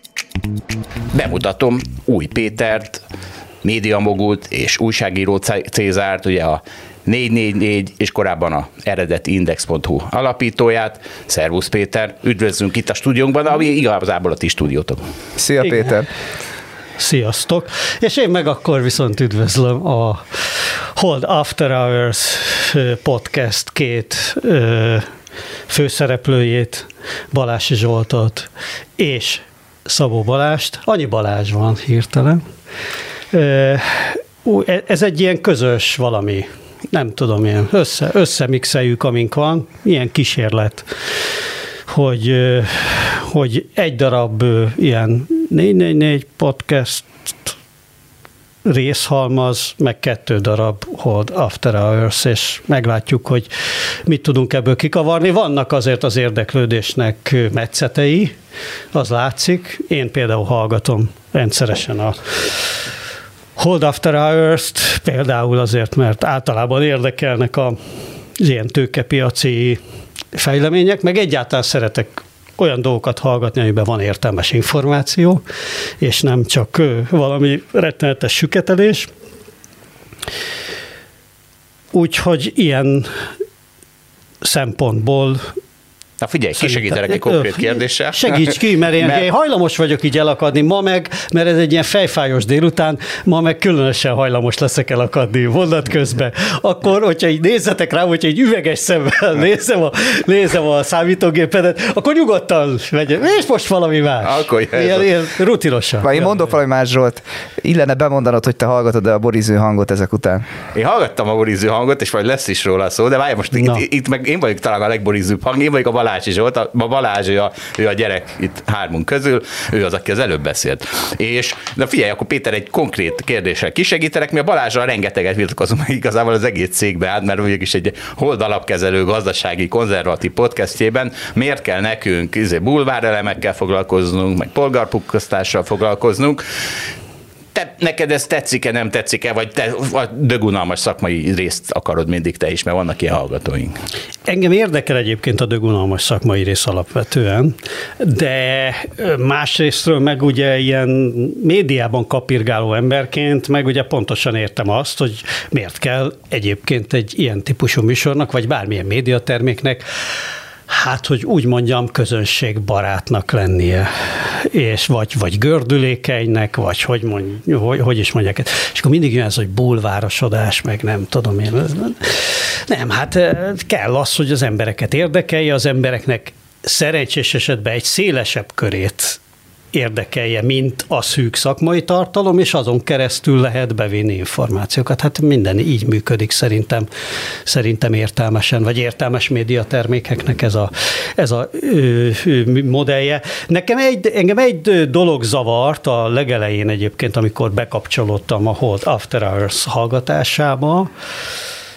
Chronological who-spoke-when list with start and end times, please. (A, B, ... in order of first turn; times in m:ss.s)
0:01.1-0:03.0 A
0:03.6-0:15.0 A
0:15.4-0:16.1 B
0:15.6-0:15.9 C
0:17.0-0:25.1 C
0:25.7-0:32.4 C
0:33.3-0:41.3 C
0:41.9-0:47.5 C
0:48.6-0:58.3 C
0:58.9-1:02.8 C
1:03.6-1:07.8 C
1:08.4-1:09.8 C
1:10.3-1:15.4 C
1:16.0-1:19.1 C
1:21.9-1:23.2 C
1:24.4-1:25.6 C
1:26.2-1:29.2 A
1:26.6-1:46.4 C
1:44.2-1:45.1 A
1:46.0-1:50.4 B
1:50.7-2:16.4 A
1:53.5-1:53.8 C
2:17.5-2:23.8 A
2:24.3-2:39.9 C
2:40.7-2:59.2 C
2:59.7-3:06.9 C
3:07.4-3:20.9 C